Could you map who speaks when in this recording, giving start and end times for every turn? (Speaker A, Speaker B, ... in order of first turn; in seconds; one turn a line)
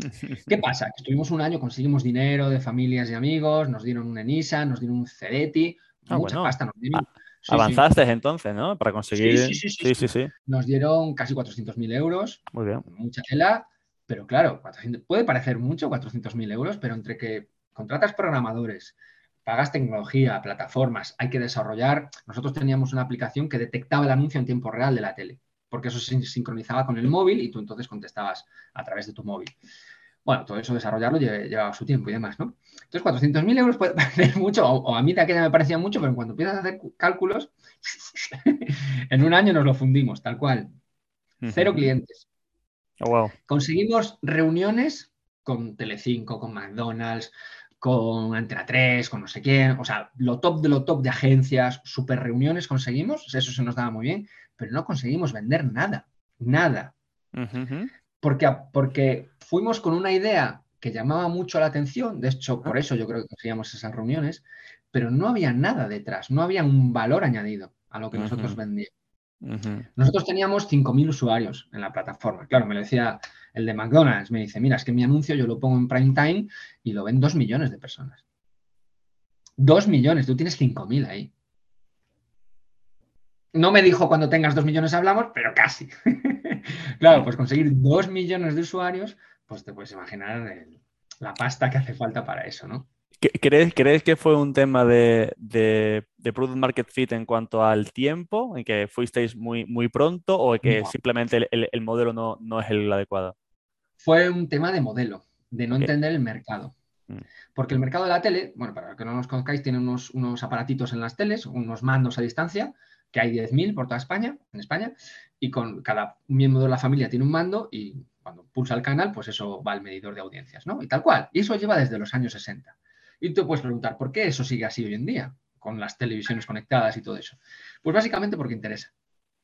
Speaker A: 0.5-7.8
Speaker B: 6.1-10.3
Speaker A: 9.1-29.5
Speaker B: 12.5-12.8
Speaker A: 30.2-40.7
Speaker B: 41.4-41.9
Speaker A: 41.5-42.2
Speaker B: 43.0-43.3
Speaker A: 43.5-56.9
Speaker B: 57.3-57.9
Speaker A: 58.2-68.9
Speaker B: 68.1-68.6
Speaker B: 69.4-69.8
Speaker A: 70.0-78.2
Speaker A: 79.6-81.3
Speaker A: 83.5-92.9
Speaker B: 93.2-103.3
Speaker A: 100.6-100.9
Speaker A: 104.0-106.7
Speaker A: 107.5-128.9